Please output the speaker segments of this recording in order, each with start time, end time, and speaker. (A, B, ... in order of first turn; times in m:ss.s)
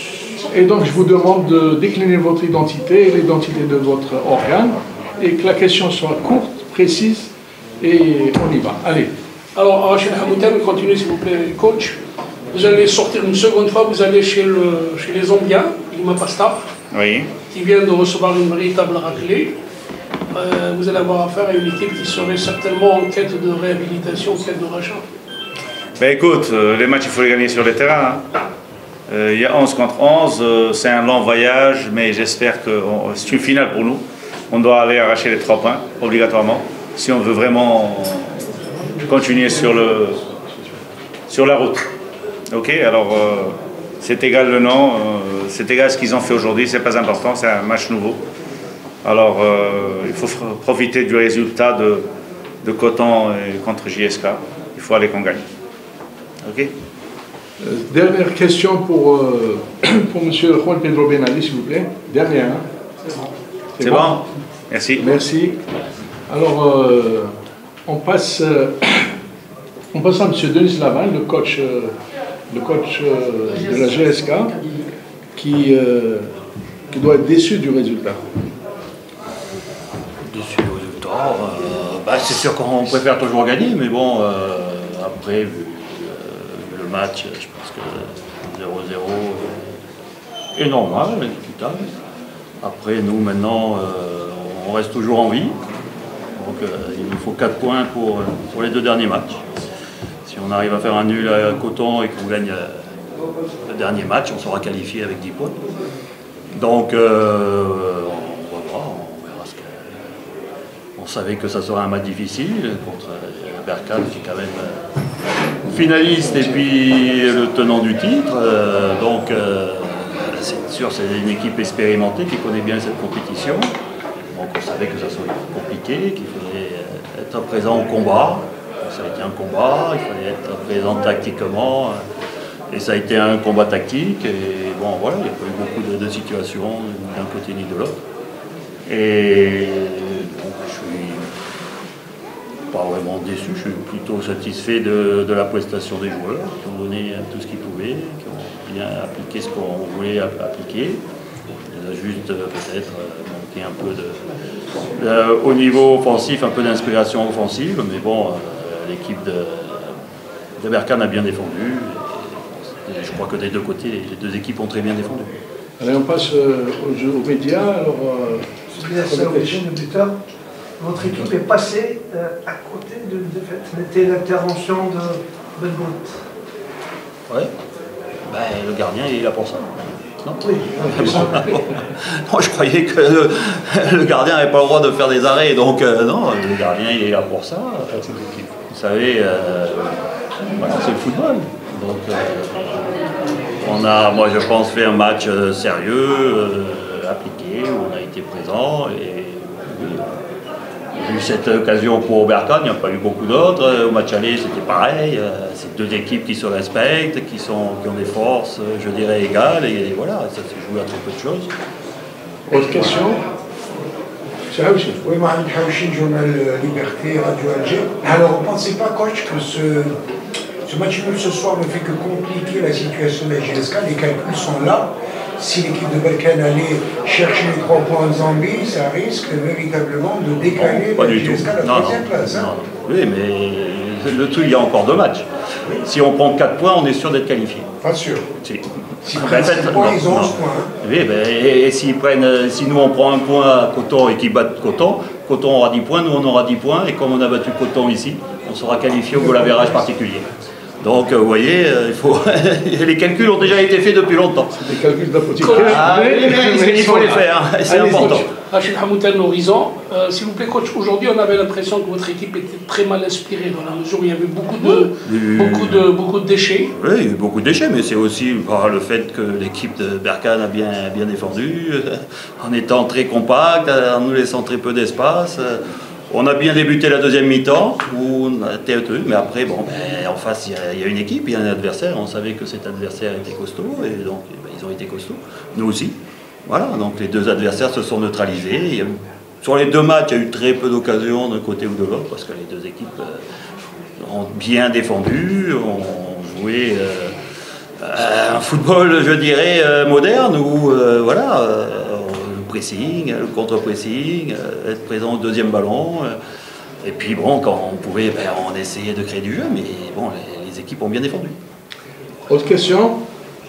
0:00.4-0:09.1 A
0:09.5-0:12.0 B
0:12.5-0:16.6 B
0:16.9-0:17.3 C
0:17.5-0:19.5 B
0:20.3-0:25.0 B
0:26.0-0:28.2 C
0:29.1-0:38.5 C
0:39.0-0:40.2 C
0:41.3-0:41.8 C
0:42.5-0:48.2 C
0:49.0-0:52.1 C
0:52.6-0:55.4 C
0:56.4-0:56.7 C
0:57.6-1:02.6 A
1:03.8-1:04.2 A
1:03.8-1:05.0 C
1:05.0-1:05.6 A
1:06.3-1:07.3 A
1:07.8-1:09.1 A
1:09.9-1:11.9 A
1:12.5-1:14.6 A
1:15.3-1:16.3 A
1:16.9-1:18.2 A
1:20.2-1:29.8 D
1:30.5-1:31.9 D
1:32.6-1:35.6 D
1:36.4-1:39.4 D
1:40.2-1:42.8 D
1:43.6-1:45.6 D
1:46.5-1:50.0 D
1:51.0-1:54.8 D
1:55.6-2:03.7 D
2:04.3-2:12.0 D
2:12.7-2:18.0 D
2:18.9-2:21.3 D
2:22.7-2:31.0 D
2:31.7-2:34.3 D
2:34.9-2:39.9 D
2:40.6-2:45.4 D
2:45.8-2:49.6 A
2:48.7-2:50.1 E
2:50.8-2:56.2 E
2:58.3-3:08.0 D
3:00.4-3:01.6 E
3:08.0-3:08.4 A
3:08.6-3:10.0 D
3:10.5-3:13.0 D
3:13.6-3:20.1 D
3:20.9-3:31.5 D
3:32.5-3:33.2 A
3:34.5-3:35.0 A
3:35.0-3:40.0 F
3:40.6-3:52.5 F
3:50.5-3:55.3 D
3:55.8-3:57.7 D
3:57.8-3:58.2 F
3:58.4-4:10.2 D
3:59.0-4:00.7 F
4:10.8-4:14.5 D
4:14.5-4:18.1 A
4:15.4-4:16.0 B
4:15.6-4:18.3 D
4:17.8-4:26.7 B
4:24.6-4:25.9 D
4:26.7-4:45.9 D
4:46.4-4:53.2 D
4:54.0-4:57.2 D
4:57.8-5:06.1 D
5:06.8-5:11.4 D
5:12.3-5:13.0 A